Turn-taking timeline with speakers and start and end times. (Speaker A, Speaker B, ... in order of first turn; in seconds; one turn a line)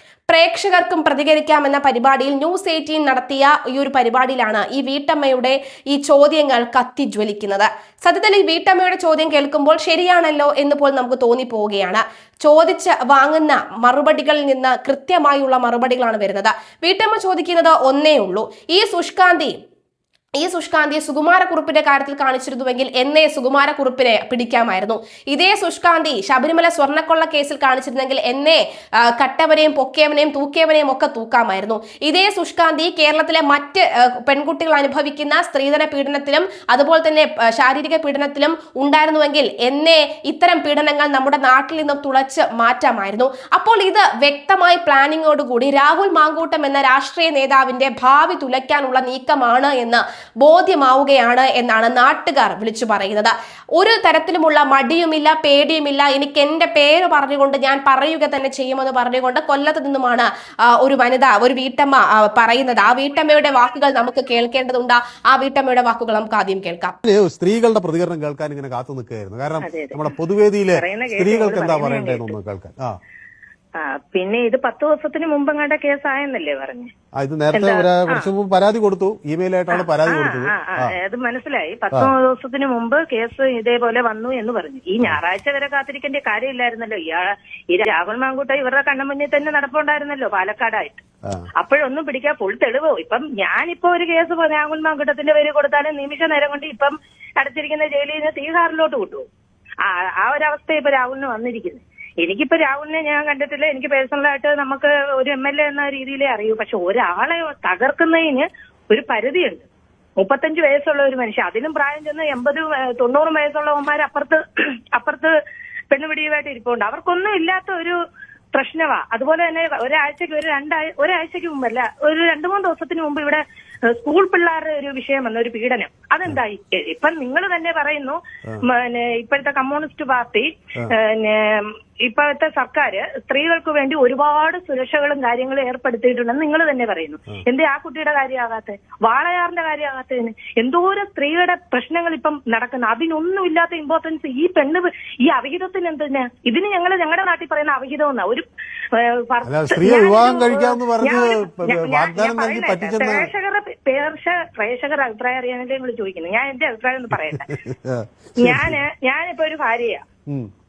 Speaker A: 0.3-19.6
Speaker A: 20.4-67.0
Speaker B: 67.0-73.0
Speaker C: 69.6-70.1
Speaker C: 70.7-72.3
Speaker C: 73.8-76.9
Speaker B: 77.1-80.9
Speaker C: 77.5-78.3
Speaker C: 79.7-91.0
Speaker C: 91.6-99.3
Speaker C: 99.8-109.7
Speaker C: 110.2-114.4
Speaker C: 114.9-115.3
Speaker C: 115.9-118.0
Speaker C: 118.5-157.6
Speaker B: 149.4-153.3
Speaker B: 157.5-158.8
Speaker C: 158.4-160.0